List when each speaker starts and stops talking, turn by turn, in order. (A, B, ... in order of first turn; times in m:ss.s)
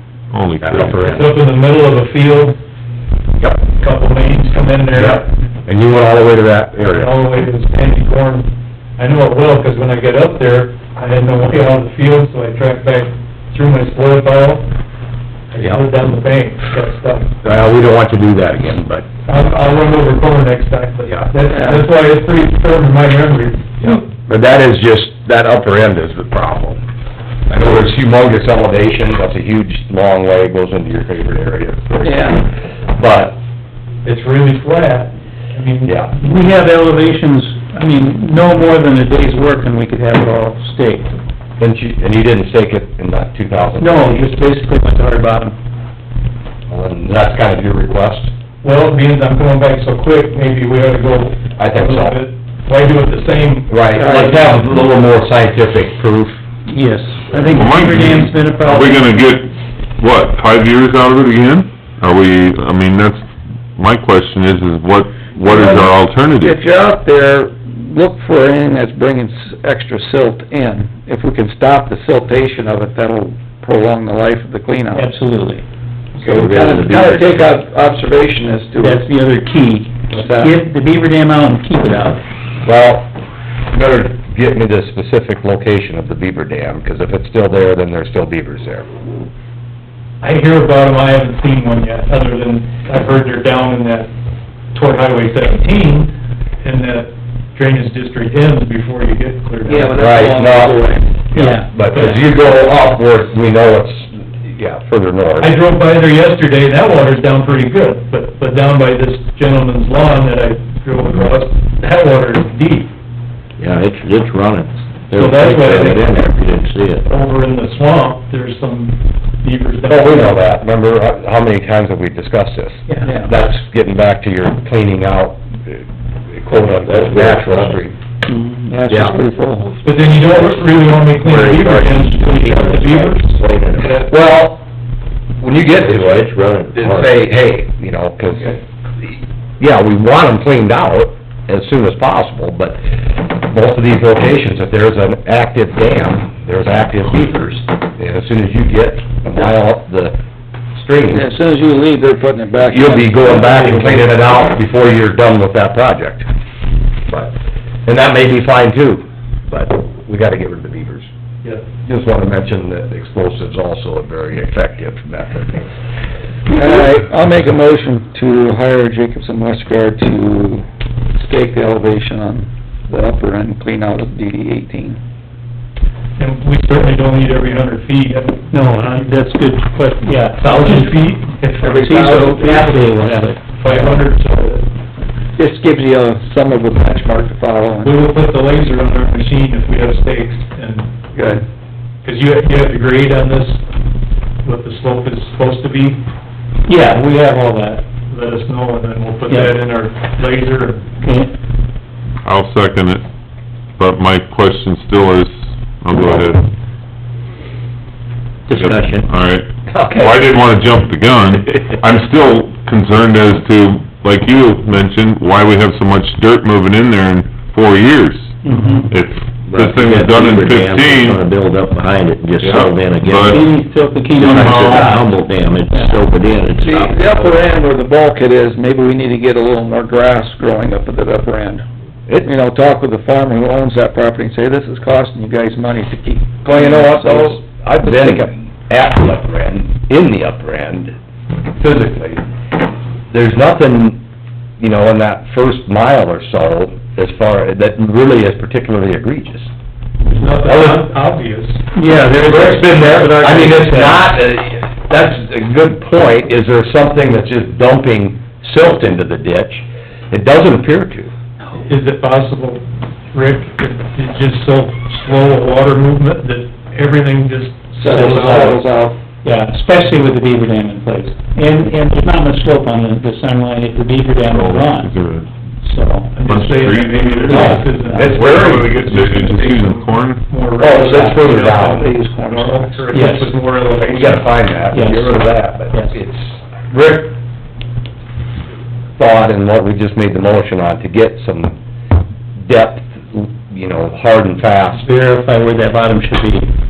0:00.3-0:01.2 A
0:00.6-0:01.2 B
0:01.0-0:02.6 C
0:03.7-0:05.3 C
0:04.9-0:07.2 B
0:06.9-0:14.6 C
0:15.5-0:17.3 C
0:15.6-0:15.8 B
0:17.4-0:19.1 B
0:19.2-0:24.0 C
0:23.8-0:26.8 B
0:27.5-0:33.4 B
0:32.0-0:32.4 D
0:34.0-0:36.0 C
0:35.8-0:36.1 B
0:36.2-0:41.1 E
0:41.6-0:44.3 B
0:43.8-0:45.5 E
0:46.7-0:48.3 B
0:48.6-0:54.5 C
0:51.6-0:52.2 B
0:53.7-0:56.4 B
0:54.0-0:54.3 D
0:56.7-0:59.2 E
0:57.4-1:06.6 A
1:05.4-1:15.1 D
1:14.9-1:15.6 E
1:16.2-1:19.0 D
1:16.2-1:17.5 F
1:18.8-1:22.2 E
1:20.1-1:20.6 D
1:22.6-1:23.1 B
1:23.7-1:28.9 B
1:30.2-1:34.1 C
1:34.7-1:40.0 C
1:39.6-1:41.2 D
1:39.9-1:40.8 B
1:41.3-1:42.1 C
1:41.3-1:42.2 E
1:41.5-1:45.6 B
1:45.4-1:52.9 C
1:53.6-1:57.0 F
1:55.1-1:56.2 C
1:57.0-2:00.6 C
1:59.9-2:07.9 B
2:06.5-2:07.9 F
2:08.3-2:08.8 E
2:08.6-2:09.8 D
2:08.9-2:09.1 F
2:09.8-2:14.0 C
2:10.1-2:10.6 F
2:11.2-2:14.1 F
2:14.0-2:14.6 B
2:15.4-2:30.2 B
2:15.7-2:17.2 F
2:30.7-2:31.3 B
2:31.1-2:34.0 D
2:32.7-2:36.3 B
2:37.1-2:37.3 B
2:37.8-2:41.1 B
2:41.8-2:45.6 B
2:46.5-2:50.6 D
2:51.2-2:55.0 D
2:56.2-2:59.1 C
2:58.5-3:01.0 E
3:00.4-3:02.8 C
3:01.6-3:02.7 D
3:01.8-3:04.0 E
3:03.5-3:04.7 C
3:05.4-3:08.0 D
3:07.8-3:11.4 C
3:11.1-3:11.4 D
3:12.0-3:13.6 C
3:14.4-3:16.0 C
3:16.7-3:17.8 E
3:18.1-3:20.9 C
3:19.3-3:19.5 E
3:21.0-3:21.3 E
3:22.2-3:23.0 A
3:23.8-3:26.5 A
3:28.5-3:29.1 F
3:28.5-3:41.3 A
3:29.7-3:30.2 B
3:38.4-3:39.0 E
3:39.5-3:43.6 F
3:42.4-3:43.5 A
3:43.3-3:46.0 E
3:44.1-3:47.4 F
3:44.3-3:45.0 A
3:46.6-3:51.6 D
3:52.2-3:58.3 D
3:56.4-4:00.9 B
4:01.6-4:02.2 B
4:03.1-4:04.0 B
4:04.6-4:09.5 B
4:10.0-4:11.6 C
4:10.4-4:10.9 B
4:11.7-4:14.2 E
4:12.2-4:21.1 B
4:21.5-4:28.6 C
4:27.8-4:29.0 D
4:27.9-4:28.6 E
4:29.2-4:34.9 E
4:34.3-4:35.3 A
4:35.6-4:36.1 E
4:36.1-4:44.4 C
4:36.2-4:40.2 A
4:37.2-4:38.2 E
4:37.9-4:38.8 B
4:40.6-4:41.9 B
4:40.7-4:42.8 D
4:42.9-4:43.4 E
4:43.8-4:47.2 B
4:44.7-4:46.0 E
4:49.0-4:51.6 B
4:52.4-4:54.9 B
4:54.7-4:56.5 E